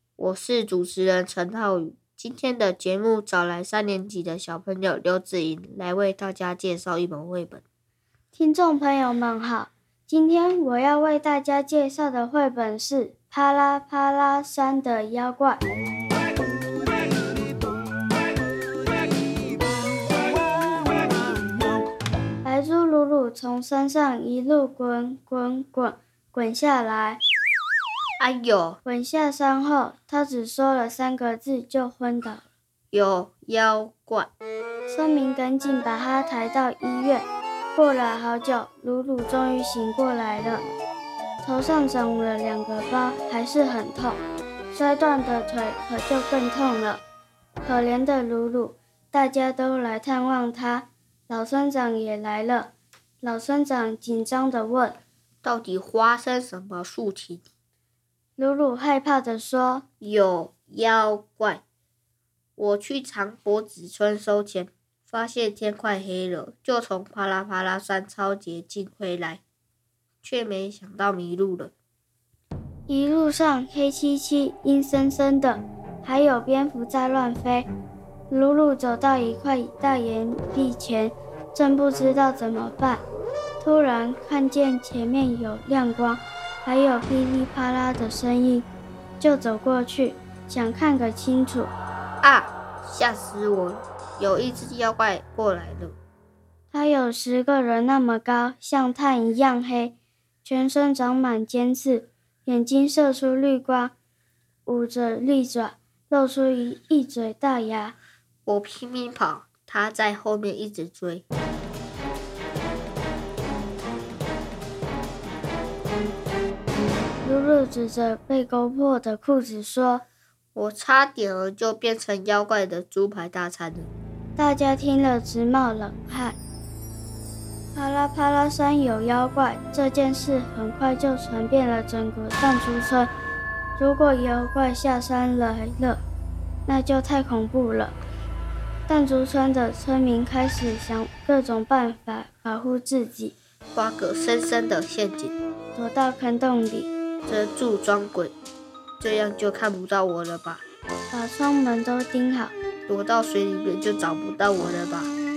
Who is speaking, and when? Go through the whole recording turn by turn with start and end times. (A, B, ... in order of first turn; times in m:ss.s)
0:00.2-0:07.6 A
0:08.3-0:15.6 B
0:22.4-0:27.2 B
0:28.2-0:28.8 A
0:28.8-0:32.5 B
0:32.9-0:34.3 A
0:34.9-0:40.7 B
0:41.4-0:47.0 B
0:47.6-0:55.0 B
0:55.4-0:57.4 A
0:58.4-0:59.8 B
1:00.0-1:01.6 A
1:02.6-1:09.4 A
1:10.2-1:11.7 A
1:12.9-1:17.7 B
1:18.3-1:23.0 B
1:23.6-1:28.7 B
1:29.2-1:31.7 B
1:32.2-1:36.0 A
1:36.7-1:43.9 B
1:44.7-1:48.0 B
1:48.5-1:51.2 A
1:57.2-2:00.0 B
2:00.6-2:03.9 A
2:04.4-2:06.4 B
2:07.8-2:13.1 B
2:13.8-2:16.0 B
2:16.7-2:18.0 B
2:18.9-2:23.4 B
2:23.8-2:25.4 A
2:25.8-2:26.9 B
2:27.2-2:28.3 A
2:29.0-2:30.6 A
2:31.1-2:32.5 B
2:32.9-2:35.1 A